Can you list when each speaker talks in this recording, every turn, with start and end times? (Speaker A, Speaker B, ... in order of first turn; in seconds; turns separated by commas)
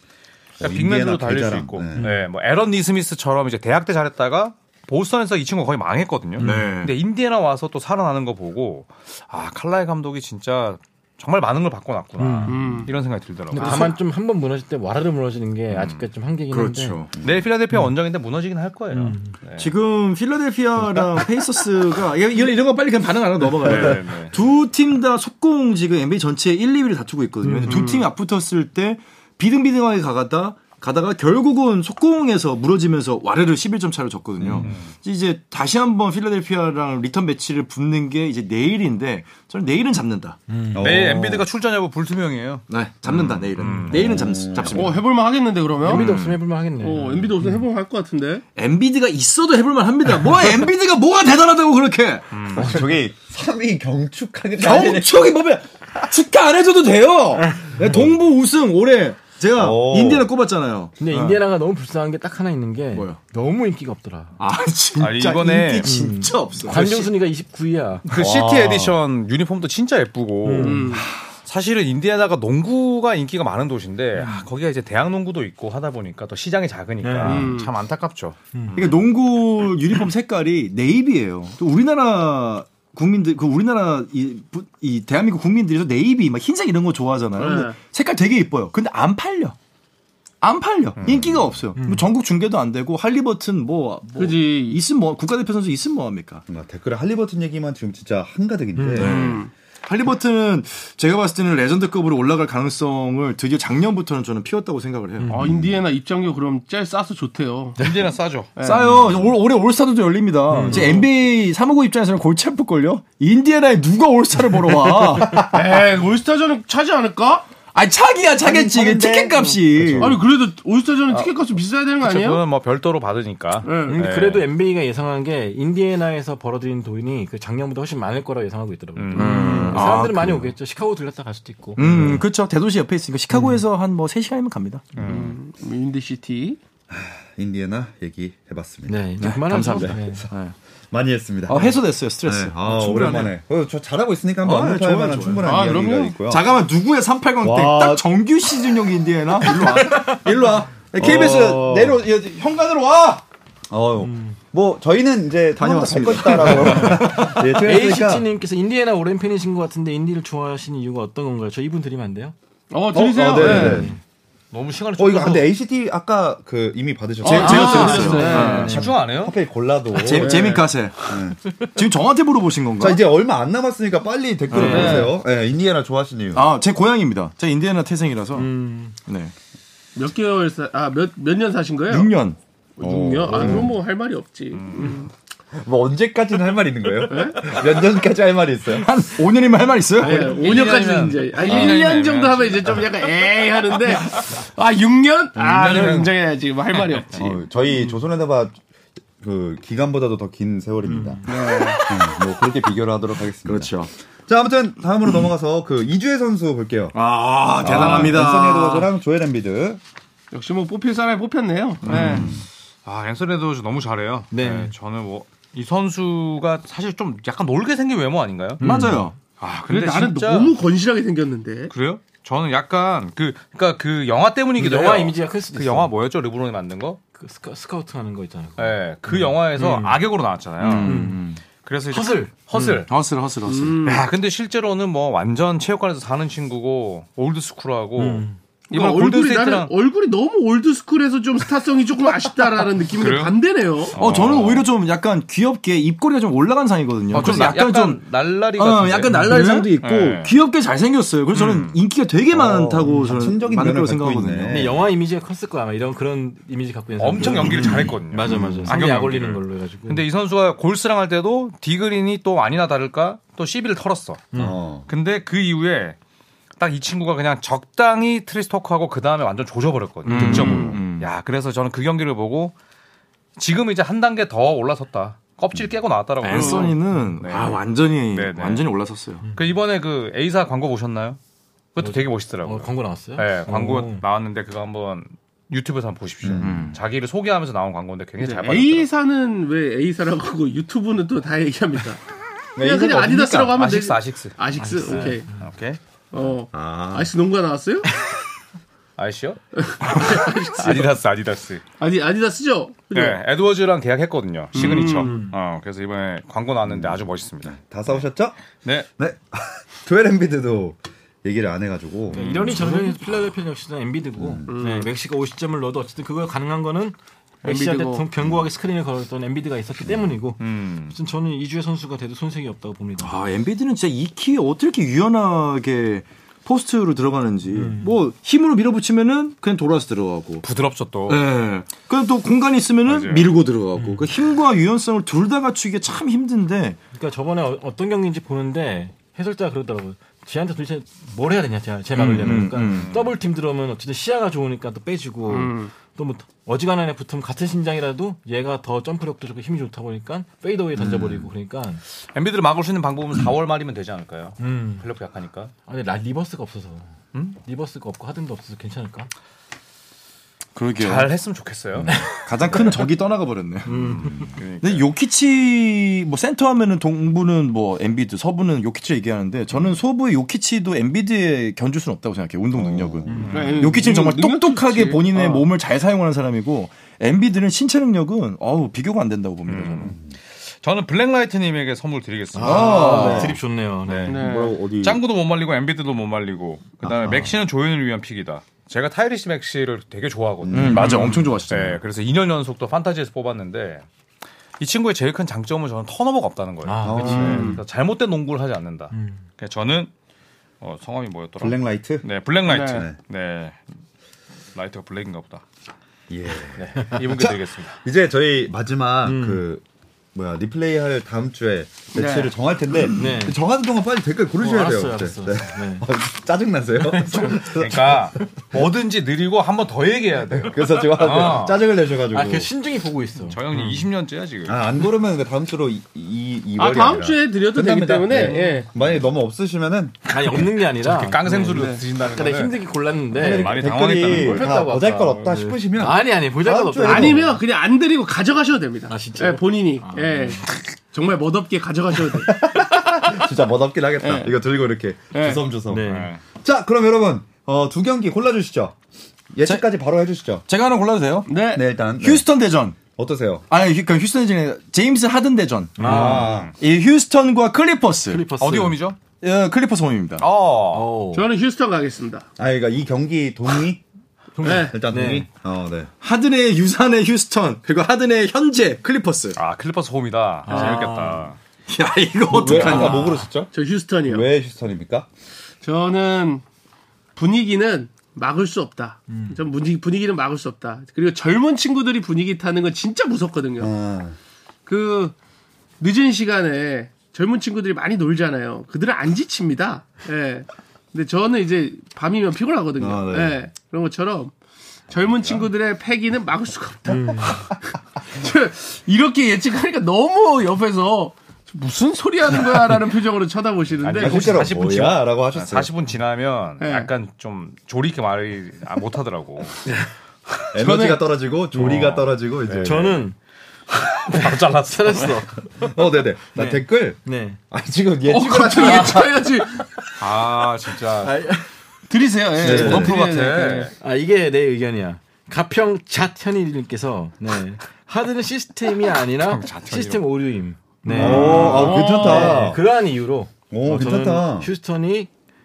Speaker A: 0.6-2.1, Speaker B: 0.6-13.9, Speaker C: 2.0-2.2, Speaker C: 6.4-6.7, Speaker D: 6.4-6.9, Speaker C: 12.2-12.9, Speaker E: 12.4-12.9, Speaker C: 13.5-17.0, Speaker D: 13.6-13.9, Speaker B: 15.7-16.1, Speaker D: 16.5-17.2, Speaker B: 17.2-19.7, Speaker C: 18.9-19.3, Speaker D: 19.6-40.4, Speaker C: 20.8-21.2, Speaker B: 23.6-24.3, Speaker C: 27.4-27.9, Speaker E: 27.6-28.1, Speaker C: 34.4-34.7, Speaker B: 34.6-34.9, Speaker C: 40.5-41.0, Speaker A: 40.7-41.4, Speaker B: 40.8-44.2, Speaker D: 42.7-45.0, Speaker C: 43.6-44.0, Speaker A: 43.9-44.9, Speaker E: 44.6-46.1, Speaker C: 45.8-47.6, Speaker D: 45.8-46.4, Speaker E: 46.8-48.4, Speaker D: 48.5-52.2, Speaker B: 52.3-52.7, Speaker A: 52.5-55.2, Speaker D: 54.6-61.4, Speaker A: 59.5-60.3, Speaker C: 61.0-64.3, Speaker D: 62.9-63.2, Speaker D: 64.4-67.1, Speaker B: 65.0-65.9, Speaker C: 65.8-68.0, Speaker B: 68.0-79.0, Speaker A: 68.1-69.0, Speaker C: 70.4-70.9, Speaker E: 70.6-71.1, Speaker C: 74.2-74.4, Speaker C: 77.0-77.5, Speaker E: 77.2-77.7, Speaker C: 78.5-78.8, Speaker D: 78.8-89.5, Speaker E: 87.3-87.8, Speaker D: 90.4-96.4, Speaker B: 91.0-91.5, Speaker C: 91.8-92.1, Speaker E: 94.1-94.8, Speaker A: 96.5-99.4, Speaker C: 98.8-99.1, Speaker D: 98.9-105.5, Speaker E: 98.9-99.5, Speaker C: 105.2-105.5, Speaker E: 105.3-107.8, Speaker B: 107.8-108.5, Speaker E: 108.6-109.0, Speaker D: 108.6-115.5, Speaker C: 110.5-111.0, Speaker E: 110.7-111.0, Speaker A: 115.3-115.5, Speaker E: 115.5-117.5, Speaker D: 117.7-120.2, Speaker A: 118.4-120.1, Speaker E: 119.4-122.4, Speaker B: 122.0-124.4, Speaker E: 123.6-124.0, Speaker C: 123.8-132.2, Speaker B: 128.9-129.8, Speaker D: 129.2-130.5, Speaker E: 129.3-129.9, Speaker D: 131.8-135.1, Speaker A: 131.8-132.1, Speaker C: 133.3-133.6, Speaker B: 135.0-135.4, Speaker E: 135.0-136.6, Speaker A: 136.9-140.3, Speaker C: 138.9-140.3, Speaker D: 139.2-140.5, Speaker A: 140.9-146.4, Speaker D: 141.4-143.3, Speaker D: 144.4-153.2, Speaker E: 145.4-146.2, Speaker A: 147.4-149.8, Speaker C: 149.8-150.2, Speaker A: 150.9-152.0, Speaker A: 153.7-158.2, Speaker C: 154.0-154.3, Speaker D: 155.6-157.4, Speaker C: 156.8-162.3, Speaker E: 162.7-163.9, Speaker A: 162.9-163.9, Speaker D: 163.3-163.8, Speaker C: 163.4-164.0, Speaker B: 164.5-165.5, Speaker A: 164.9-170.6, Speaker E: 167.2-168.8, Speaker D: 167.2-168.9, Speaker C: 167.3-168.9, Speaker B: 168.4-169.4, Speaker D: 169.9-173.0, Speaker E: 170.1-170.7, Speaker A: 171.1-171.4, Speaker A: 172.8-176.5, Speaker D: 174.5-175.1, Speaker E: 174.5-175.1, Speaker D: 176.3-178.5, Speaker C: 178.3-179.0, Speaker D: 179.1-179.3, Speaker E: 179.9-182.1, Speaker D: 181.9-183.7, Speaker E: 182.8-185.1, Speaker A: 183.3-183.7, Speaker B: 184.5-185.1, Speaker A: 185.5-188.9, Speaker E: 187.1-187.5, Speaker D: 188.7-190.6, Speaker E: 190.0-197.4, Speaker B: 190.2-192.9, Speaker A: 191.5-191.7, Speaker B: 195.4-197.3, Speaker A: 195.5-195.9, Speaker A: 197.1-198.6, Speaker A: 199.2-201.2, Speaker C: 200.9-201.7, Speaker E: 201.2-201.9, Speaker A: 201.8-206.9, Speaker D: 203.4-203.9, Speaker D: 206.9-208.9, Speaker A: 207.6-209.8, Speaker E: 207.6-208.2, Speaker E: 210.3-212.3, Speaker D: 211.8-212.3, Speaker A: 211.9-212.4, Speaker C: 211.9-212.2, Speaker B: 212.8-218.6, Speaker C: 214.3-214.7, Speaker C: 218.6-219.1, Speaker D: 218.6-219.2, Speaker B: 219.4-220.5, Speaker E: 219.7-221.7, Speaker B: 221.7-227.0, Speaker C: 224.6-225.9, Speaker C: 227.1-230.0, Speaker B: 228.6-232.9, Speaker D: 230.6-231.4, Speaker C: 230.8-231.2, Speaker C: 231.9-232.8, Speaker D: 232.9-234.0, Speaker E: 233.4-234.0, Speaker B: 233.8-239.7, Speaker C: 238.0-238.4, Speaker E: 238.7-244.0, Speaker B: 243.0-243.3, Speaker B: 243.9-244.7, Speaker D: 243.9-248.0, Speaker B: 247.1-250.3, Speaker D: 248.6-254.7, Speaker C: 249.1-249.7, Speaker B: 251.3-251.8, Speaker A: 252.3-254.8, Speaker C: 252.9-253.2, Speaker C: 254.4-260.0, Speaker B: 257.0-264.3, Speaker A: 258.2-258.7, Speaker C: 264.3-264.6, Speaker A: 264.3-264.9, Speaker B: 264.9-265.9, Speaker B: 266.6-272.5, Speaker D: 270.1-271.1, Speaker C: 270.1-270.8, Speaker B: 273.4-278.6, Speaker D: 276.2-279.2, Speaker E: 276.3-276.7, Speaker C: 279.2-279.5, Speaker B: 279.3-281.2, Speaker B: 281.7-288.9, Speaker C: 281.8-284.0, Speaker A: 286.2-286.7, Speaker D: 286.4-286.8, Speaker E: 288.2-292.0, Speaker E: 292.6-295.3, Speaker B: 292.6-294.4, Speaker C: 294.5-295.3, Speaker B: 294.9-295.8, Speaker E: 296.1-297.9, Speaker A: 296.5-297.1, Speaker B: 299.0-301.6, Speaker E: 299.6-300.9, Speaker E: 301.8-303.2, Speaker B: 302.9-308.0, Speaker E: 304.5-305.2, Speaker C: 304.6-305.3, Speaker A: 306.7-308.4, Speaker A: 309.0-312.3, Speaker B: 312.1-312.6, Speaker C: 312.1-323.2, Speaker A: 314.2-314.5, Speaker E: 314.5-314.9, Speaker E: 317.4-318.1, Speaker B: 320.4-320.9, Speaker D: 323.0-330.4, Speaker C: 327.5-327.9, Speaker B: 330.4-331.2, Speaker D: 331.1-336.8, Speaker B: 332.9-333.3, Speaker C: 333.8-334.1, Speaker C: 336.9-351.8, Speaker D: 341.9-342.9, Speaker B: 342.6-343.1, Speaker E: 345.3-345.7, Speaker D: 350.8-351.3, Speaker B: 352.1-355.5, Speaker C: 354.4-354.9, Speaker C: 355.7-356.9, Speaker C: 357.4-359.1, Speaker D: 360.5-361.1, Speaker B: 360.8-362.7, Speaker D: 362.0-363.9, Speaker C: 363.6-364.3, Speaker B: 363.7-364.9, Speaker D: 364.6-379.9, Speaker B: 372.5-373.7, Speaker A: 372.9-373.3, Speaker C: 373.1-373.6, Speaker E: 373.3-375.5, Speaker B: 379.4-383.3, Speaker C: 382.3-384.3, Speaker D: 382.4-383.4, Speaker A: 382.4-383.4, Speaker B: 383.9-393.8, Speaker E: 384.1-384.6, Speaker A: 384.1-385.0, Speaker A: 386.8-387.4, Speaker A: 390.4-391.2, Speaker D: 390.5-391.8, Speaker C: 390.7-391.2, Speaker B: 394.6-399.9, Speaker C: 396.6-397.6, Speaker A: 396.8-397.5, Speaker E: 397.1-397.6, Speaker C: 398.9-399.2, Speaker B: 400.6-403.7, Speaker A: 401.4-402.0, Speaker E: 402.5-402.9, Speaker A: 402.6-402.9, Speaker B: 404.5-405.4, Speaker A: 406.1-409.6, Speaker B: 406.5-407.8, Speaker C: 409.0-409.4, Speaker A: 410.1-418.1, Speaker E: 411.9-412.3, Speaker C: 412.9-413.4, Speaker C: 414.4-415.9, Speaker C: 416.8-417.6, Speaker B: 417.5-421.6, Speaker A: 420.4-422.5, Speaker C: 422.1-423.8, Speaker B: 423.2-424.6, Speaker A: 424.4-430.0, Speaker E: 426.6-428.7, Speaker C: 428.1-428.6, Speaker C: 430.1-437.4, Speaker B: 430.8-432.6, Speaker E: 431.5-431.8, Speaker B: 433.1-434.7, Speaker A: 433.1-437.2, Speaker E: 436.8-443.2, Speaker C: 438.9-440.4, Speaker A: 442.3-448.8, Speaker E: 444.0-444.3, Speaker E: 445.1-445.4, Speaker C: 445.7-446.1, Speaker B: 445.9-446.2, Speaker A: 449.3-450.4, Speaker D: 450.5-451.3, Speaker E: 451.3-451.6, Speaker A: 451.5-452.3, Speaker D: 452.0-452.8, Speaker A: 452.9-453.4, Speaker D: 453.5-458.2, Speaker C: 455.8-456.4, Speaker A: 455.8-456.5, Speaker B: 455.8-456.5, Speaker C: 458.1-458.8, Speaker B: 458.4-459.0, Speaker D: 459.2-460.2, Speaker B: 460.2-460.9, Speaker C: 460.7-461.3, Speaker E: 461.1-462.3, Speaker A: 462.4-463.8, Speaker C: 464.4-465.3, Speaker E: 464.4-464.7, Speaker A: 464.4-465.9, Speaker D: 466.0-469.4, Speaker B: 469.4-471.4, Speaker C: 470.4-471.3, Speaker E: 470.5-470.9, Speaker D: 471.7-473.1, Speaker A: 472.3-473.5, Speaker C: 472.4-473.2, Speaker E: 473.5-474.2, Speaker A: 474.1-475.1, Speaker E: 475.6-476.4, Speaker E: 477.1-483.7, Speaker C: 479.1-479.4, Speaker A: 483.6-484.1, Speaker E: 484.6-485.1, Speaker E: 485.8-494.3, Speaker A: 492.8-493.4, Speaker E: 494.9-504.4, Speaker C: 496.9-497.4, Speaker B: 503.8-509.6, Speaker A: 503.9-505.7, Speaker E: 506.6-506.9, Speaker A: 510.5-513.0, Speaker E: 510.6-511.1, Speaker B: 511.6-512.9, Speaker C: 511.6-511.9, Speaker C: 512.6-513.1, Speaker B: 513.7-515.2, Speaker C: 514.5-515.5, Speaker A: 515.6-517.0, Speaker C: 516.3-517.4, Speaker A: 517.5-519.6, Speaker E: 518.0-519.6, Speaker B: 520.0-521.1, Speaker C: 521.0-521.4, Speaker E: 521.9-523.7, Speaker B: 522.4-523.7, Speaker A: 522.4-522.9, Speaker D: 522.5-522.8, Speaker C: 523.8-535.1, Speaker B: 529.2-530.1, Speaker A: 530.9-532.6, Speaker E: 531.0-532.5, Speaker B: 531.0-531.6, Speaker A: 533.5-534.5